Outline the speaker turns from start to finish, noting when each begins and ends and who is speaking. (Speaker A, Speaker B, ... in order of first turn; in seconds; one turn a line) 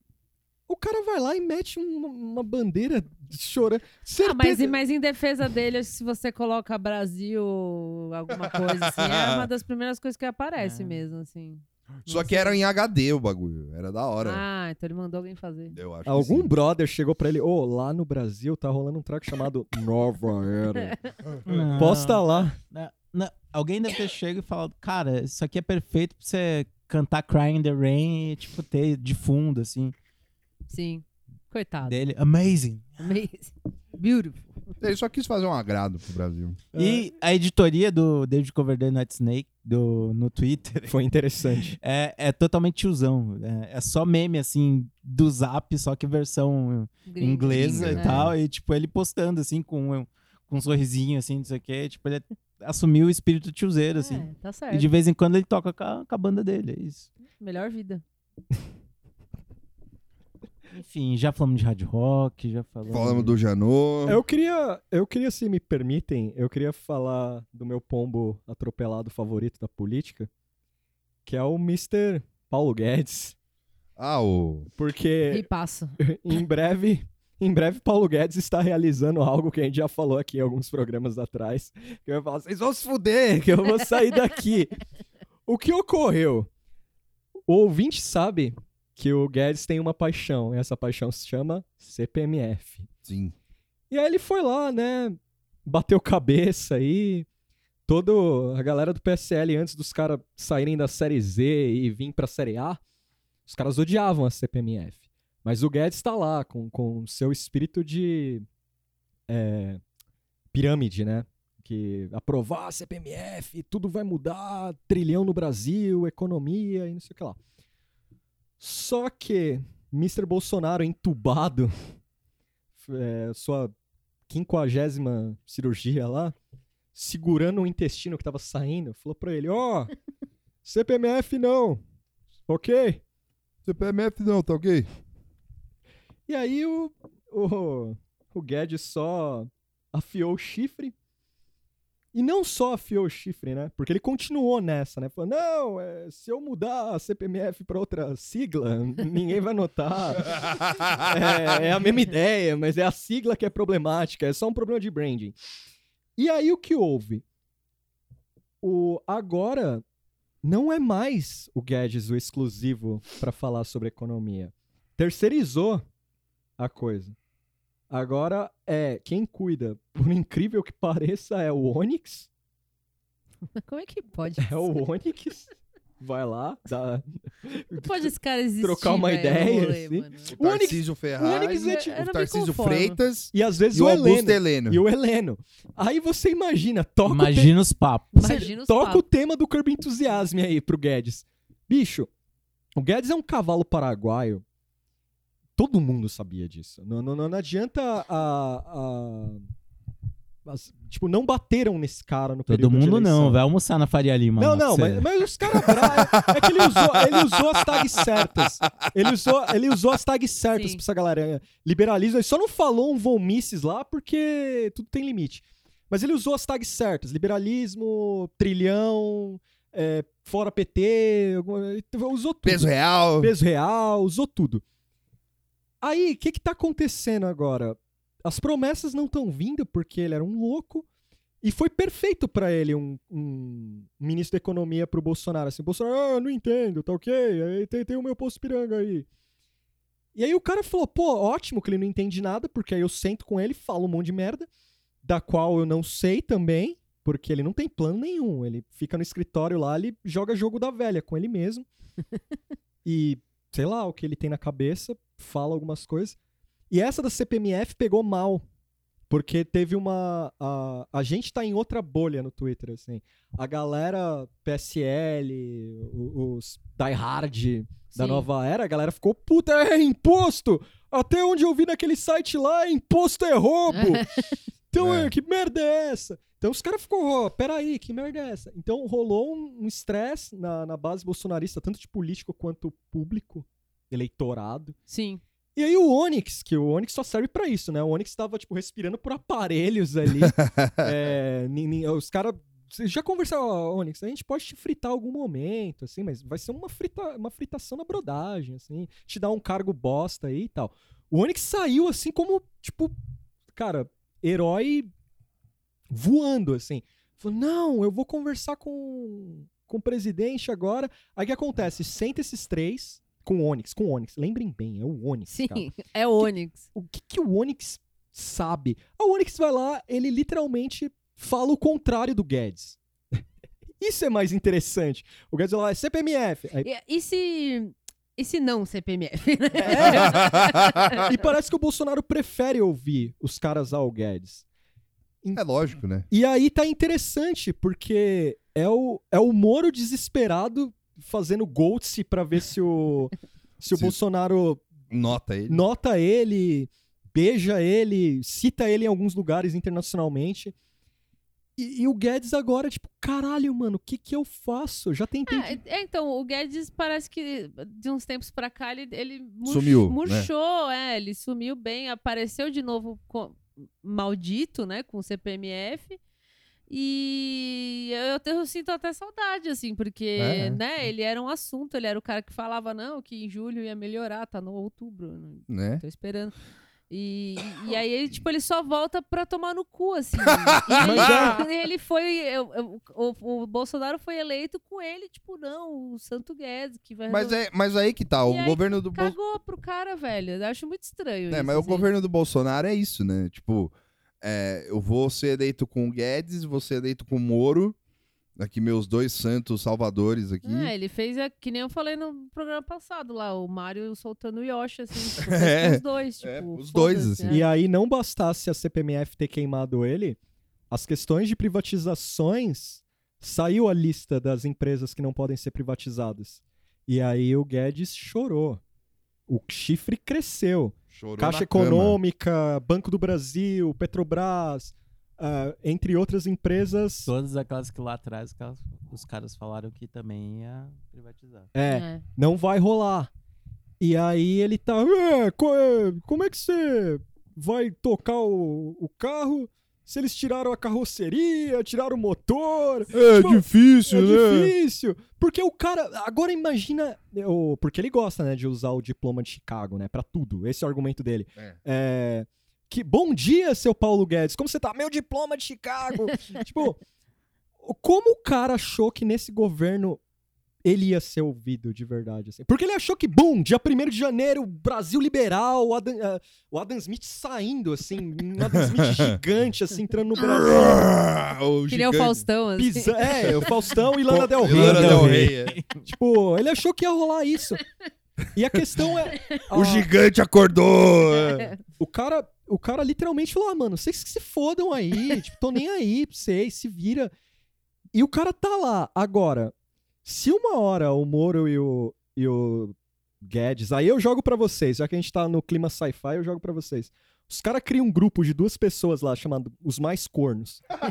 Speaker A: 0.7-4.8
Speaker B: 4.2-12.6
Speaker C: 8.4-9.5
Speaker D: 10.6-11.0
Speaker C: 12.0-14.4
Speaker B: 14.2-15.8
Speaker C: 15.7-16.5
Speaker A: 16.1-20.9
Speaker D: 21.4-29.9
Speaker A: 21.8-22.6
Speaker B: 30.7-31.9
Speaker D: 31.8-33.0
Speaker B: 33.0-34.7
Speaker C: 34.8-36.6
Speaker A: 36.7-37.1
Speaker D: 36.7-41.0
Speaker A: 40.9-41.8
Speaker D: 41.7-57.1
Speaker B: 47.1-48.2
Speaker C: 47.5-48.3
Speaker B: 54.0-54.9
Speaker B: 57.4-58.0
Speaker D: 60.7-63.3
Speaker C: 62.9-64.2
Speaker A: 64.1-70.3
Speaker A: 71.2-73.3
Speaker C: 74.0-74.7
Speaker A: 74.8-75.5
Speaker B: 75.3-76.0
Speaker A: 76.0-84.8
Speaker A: 85.5-86.5
Speaker A: 87.5-92.9
Speaker C: 93.0-93.3
Speaker A: 93.9-97.3
Speaker A: 97.9-102.8
Speaker A: 103.5-108.5
Speaker A: 109.3-109.8
Speaker A: 110.5-117.4
Speaker A: 118.6-121.7
Speaker A: 122.8-123.7
Speaker A: 124.3-126.3
Speaker A: 126.9-129.9
Speaker A: 130.6-131.8
Speaker A: 132.4-133.0
Speaker C: 133.6-134.9
Speaker A: 136.3-140.9
Speaker A: 142.1-155.3
Speaker C: 150.5-150.9
Speaker A: 156.2-157.2
Speaker A: 158.6-159.8
Speaker A: 160.4-165.8
Speaker A: 166.6-167.2
Speaker A: 167.9-172.3
Speaker B: 173.6-174.7
Speaker A: 174.4-178.1
Speaker B: 177.8-180.3
Speaker A: 178.6-182.0
Speaker C: 180.3-184.8
Speaker B: 181.2-183.0
Speaker A: 183.3-187.5
Speaker D: 187.0-188.1
Speaker B: 188.1-189.0
Speaker A: 188.2-192.1
Speaker A: 192.8-194.4
Speaker A: 195.6-199.4
Speaker A: 200.4-203.4
Speaker D: 202.5-205.1
Speaker A: 204.4-224.6
Speaker C: 205.8-208.2
Speaker B: 210.5-210.8
Speaker C: 222.4-223.3
Speaker A: 225.8-230.8
Speaker A: 231.4-239.1
Speaker A: 240.1-244.5
Speaker A: 245.0-251.7
Speaker A: 252.8-256.1
Speaker A: 256.7-258.4
Speaker A: 259.1-274.1
Speaker B: 267.9-268.2
Speaker B: 273.7-274.1
Speaker A: 274.7-284.8
Speaker C: 274.8-275.1
Speaker B: 284.9-285.2
Speaker A: 285.6-302.9
Speaker C: 290.2-290.9
Speaker A: 303.5-304.9
Speaker A: 305.9-322.8
Speaker B: 315.3-316.6
Speaker A: 323.8-326.7
Speaker B: 326.6-331.0
Speaker A: 329.6-330.4
Speaker C: 329.8-330.9
Speaker A: 330.9-334.4
Speaker C: 335.3-336.1
Speaker A: 336.1-344.6
Speaker C: 344.9-345.6
Speaker A: 345.5-350.5
Speaker A: 351.6-355.6
Speaker B: 355.3-366.0
Speaker C: 359.4-360.3
Speaker B: 366.7-376.3
Speaker C: 370.2-370.6
Speaker C: 375.5-375.8
Speaker B: 376.9-387.4
Speaker C: 380.4-381.4
Speaker A: 380.8-381.4
Speaker C: 387.1-389.1
Speaker B: 388.2-391.8
Speaker C: 391.3-397.8
Speaker C: 398.4-400.7
Speaker B: 400.4-407.5
Speaker C: 405.2-407.4
Speaker A: 407.3-410.2
Speaker A: 410.7-418.6
Speaker A: 419.3-427.1
Speaker C: 420.9-422.0
Speaker D: 427.1-431.5
Speaker A: 431.5-433.1
Speaker B: 431.7-432.0
Speaker A: 433.8-456.8
Speaker C: 442.9-444.5
Speaker A: 457.6-460.0
Speaker A: 460.6-470.9
Speaker C: 468.5-469.2
Speaker C: 470.2-472.2
Speaker B: 471.7-473.3
Speaker A: 472.6-477.6
Speaker C: 474.1-475.6
Speaker D: 474.4-475.8
Speaker A: 478.3-479.9
Speaker C: 479.5-481.5
Speaker B: 481.2-481.5
Speaker A: 481.8-487.1
Speaker A: 487.9-489.5
Speaker A: 490.0-500.6